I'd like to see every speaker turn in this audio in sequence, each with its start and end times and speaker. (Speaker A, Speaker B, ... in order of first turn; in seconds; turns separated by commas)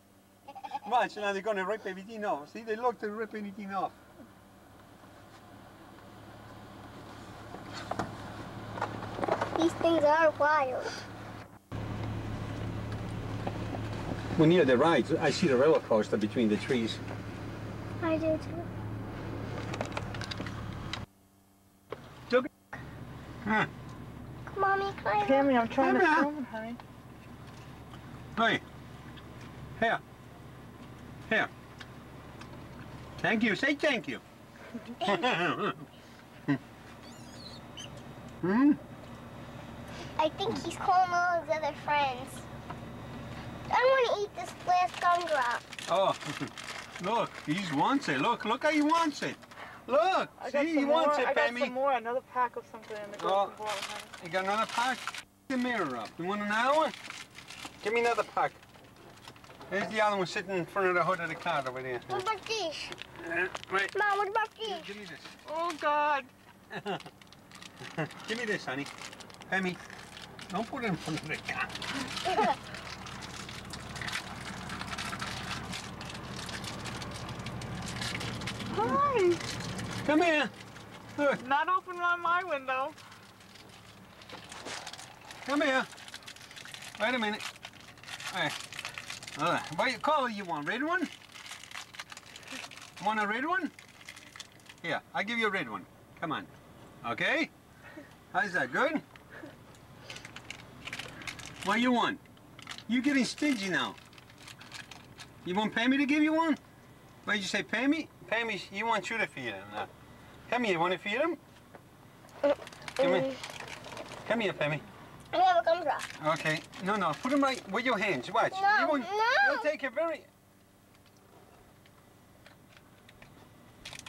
Speaker A: 0.7-4.0, Speaker B: 9.6-10.9, Speaker A: 14.4-17.0, Speaker B: 18.0-18.7, Speaker A: 23.4-23.7, Speaker B: 24.5-25.5, Speaker C: 25.2-26.8, Speaker A: 25.8-26.3, Speaker A: 28.4-28.6, Speaker A: 33.2-34.2, Speaker A: 35.0-35.9, Speaker A: 38.4-38.8, Speaker B: 40.2-42.5, Speaker B: 43.7-45.6, Speaker A: 45.9-51.7, Speaker C: 50.4-54.1, Speaker A: 53.1-53.6, Speaker A: 54.2-57.0, Speaker A: 57.8-58.6, Speaker A: 59.7-62.2, Speaker B: 62.1-63.0, Speaker A: 63.2-64.0, Speaker B: 63.9-64.9, Speaker A: 64.6-65.3, Speaker C: 65.5-66.3, Speaker A: 66.7-67.0, Speaker A: 67.8-68.9, Speaker A: 69.5-69.8, Speaker A: 70.5-71.9, Speaker C: 78.7-79.4, Speaker A: 80.0-80.5, Speaker C: 81.4-83.0, Speaker A: 85.5-85.9, Speaker A: 87.0-87.4, Speaker A: 89.4-91.1, Speaker A: 93.0-93.7, Speaker A: 94.8-96.5, Speaker A: 97.0-97.5, Speaker A: 98.3-99.0, Speaker A: 101.6-102.2, Speaker A: 102.9-104.0, Speaker A: 105.4-106.6, Speaker A: 107.2-109.9, Speaker A: 110.5-111.4, Speaker B: 112.5-113.4, Speaker A: 113.0-113.3, Speaker A: 114.2-114.8, Speaker B: 115.3-116.1, Speaker A: 116.2-120.3, Speaker B: 118.5-119.7